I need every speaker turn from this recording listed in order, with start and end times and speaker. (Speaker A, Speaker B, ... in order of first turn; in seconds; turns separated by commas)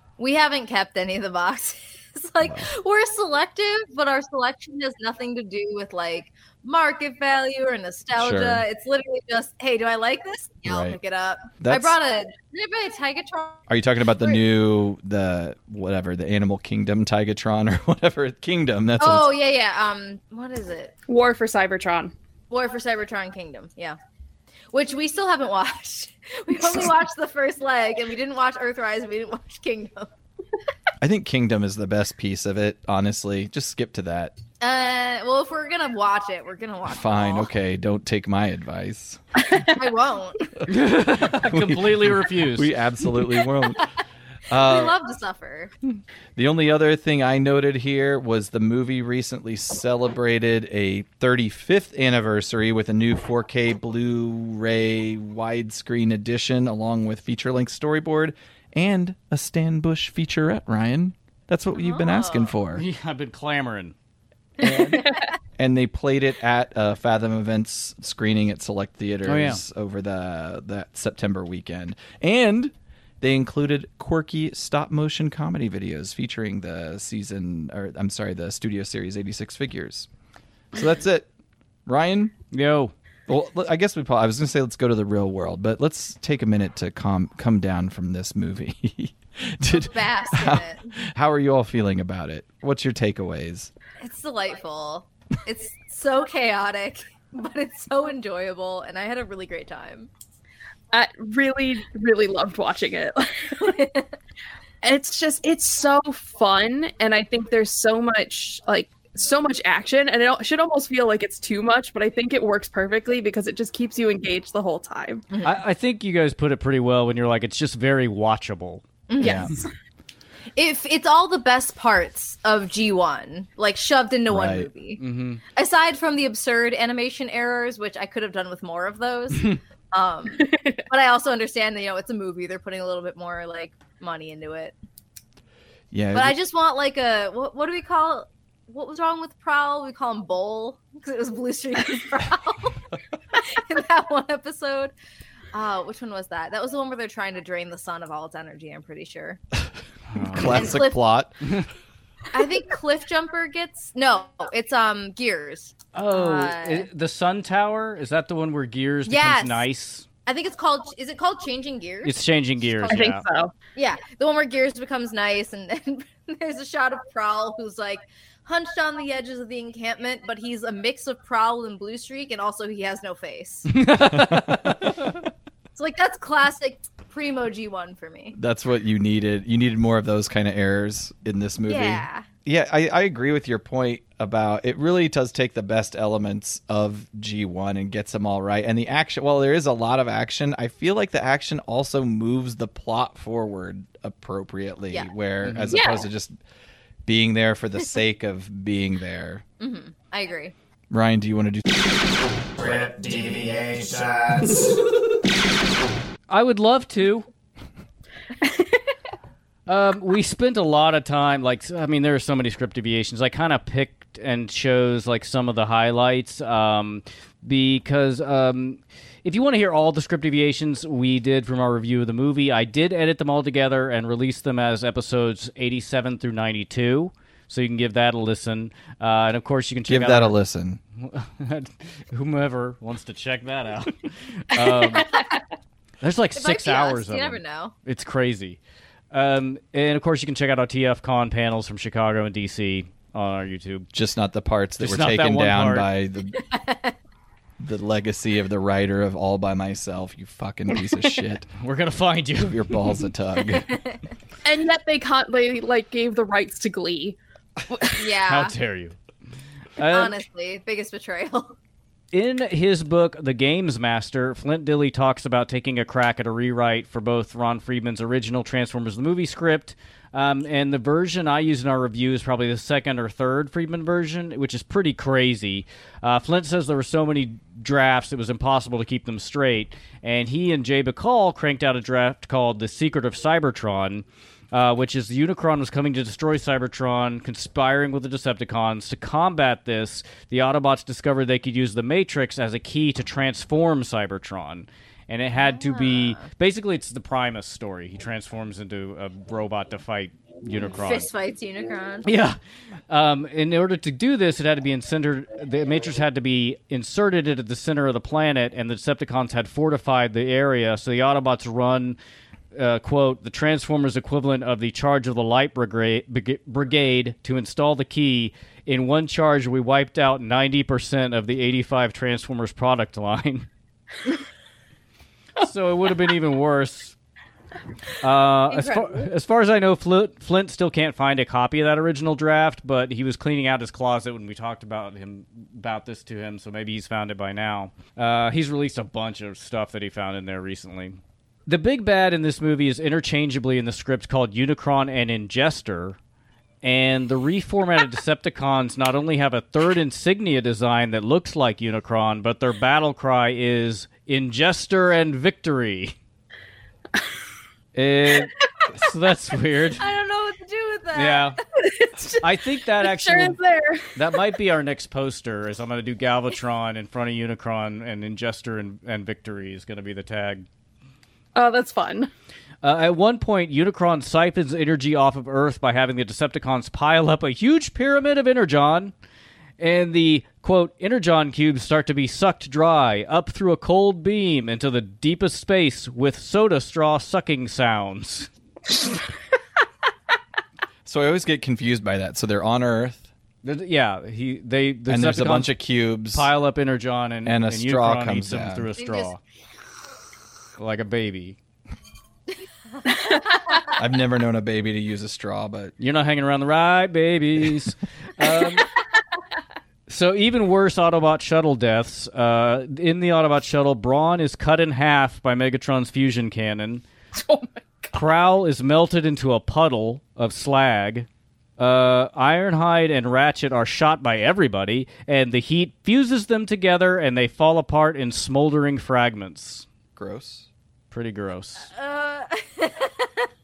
Speaker A: 0.2-13.7, Speaker B: 8.2-8.6, Speaker B: 10.6-11.0, Speaker B: 11.6-12.0, Speaker B: 13.7-19.3, Speaker A: 19.0-20.9, Speaker C: 21.1-22.1, Speaker A: 22.5-24.0, Speaker A: 24.7-30.1, Speaker B: 31.0-34.3, Speaker A: 34.6-37.5, Speaker B: 36.9-39.2, Speaker A: 39.7-40.5, Speaker D: 40.7-42.7, Speaker B: 41.2-43.9, Speaker B: 44.5-44.9, Speaker A: 44.5-45.7, Speaker B: 46.4-62.8, Speaker A: 61.7-62.5, Speaker D: 62.8-63.9, Speaker B: 64.6-80.1, Speaker D: 69.2-69.6, Speaker B: 80.7-81.3, Speaker B: 81.8-82.3, Speaker D: 82.5-82.9, Speaker B: 83.3-93.7, Speaker A: 89.7-91.0, Speaker A: 94.0-100.1, Speaker C: 100.9-103.8, Speaker A: 103.6-104.1, Speaker C: 104.8-115.2, Speaker A: 115.3-115.6, Speaker D: 115.4-118.8, Speaker A: 119.1-119.5, Speaker B: 119.2-119.5, Speaker C: 119.2-119.5, Speaker A: 120.5-125.0, Speaker B: 124.3-124.7, Speaker D: 125.0-125.4, Speaker A: 125.5-134.7, Speaker C: 130.4-130.7, Speaker B: 135.9-136.3, Speaker A: 136.1-142.8, Speaker A: 143.3-144.9, Speaker A: 145.5-149.4, Speaker D: 150.1-150.6, Speaker B: 150.2-151.3, Speaker A: 150.4-151.0, Speaker A: 152.3-156.9, Speaker D: 155.9-160.1, Speaker A: 159.1-159.6, Speaker A: 160.2-163.2, Speaker D: 162.0-163.2, Speaker C: 162.9-163.5, Speaker A: 163.7-173.7, Speaker D: 173.7-174.8, Speaker B: 174.1-174.7, Speaker A: 175.7-178.4, Speaker B: 178.3-196.3, Speaker A: 181.7-182.2, Speaker D: 195.4-195.8, Speaker C: 195.7-196.1, Speaker B: 197.1-199.4, Speaker A: 199.6-200.5, Speaker B: 200.9-201.9, Speaker B: 202.4-204.7, Speaker D: 206.3-207.3, Speaker D: 209.7-230.3, Speaker B: 229.9-230.8, Speaker D: 231.0-235.2, Speaker D: 236.0-238.6, Speaker A: 236.3-237.7, Speaker D: 239.1-243.9, Speaker B: 243.9-246.4, Speaker D: 244.8-245.9, Speaker A: 246.3-246.9, Speaker B: 247.6-251.5, Speaker D: 251.6-253.0, Speaker B: 252.4-253.7, Speaker A: 253.5-254.0, Speaker C: 254.4-257.2, Speaker C: 257.7-258.0, Speaker A: 257.9-258.5, Speaker D: 258.2-258.9, Speaker D: 259.8-260.2, Speaker A: 259.9-261.6, Speaker D: 262.1-301.1, Speaker A: 295.4-296.2, Speaker A: 300.8-302.1, Speaker D: 302.0-302.4, Speaker D: 302.9-312.0, Speaker D: 312.5-323.5, Speaker D: 325.4-326.9, Speaker D: 328.0-346.0, Speaker A: 328.5-329.0, Speaker D: 346.6-355.9, Speaker D: 357.7-359.8, Speaker A: 359.8-361.4, Speaker D: 360.9-361.4, Speaker C: 362.0-362.2, Speaker D: 362.2-363.4, Speaker C: 362.8-364.0, Speaker D: 363.9-370.4, Speaker C: 371.3-372.1, Speaker D: 372.6-378.9, Speaker D: 379.6-388.3, Speaker B: 390.9-393.1, Speaker D: 393.4-399.2, Speaker B: 394.9-396.3, Speaker B: 397.2-398.7, Speaker A: 398.8-399.1, Speaker D: 400.6-401.4, Speaker A: 402.8-403.6, Speaker B: 403.7-405.7, Speaker D: 405.8-408.7, Speaker D: 409.9-416.8, Speaker C: 417.1-417.9, Speaker D: 417.9-421.1, Speaker D: 421.6-429.6, Speaker B: 429.9-430.5, Speaker D: 430.9-431.7, Speaker A: 431.6-433.3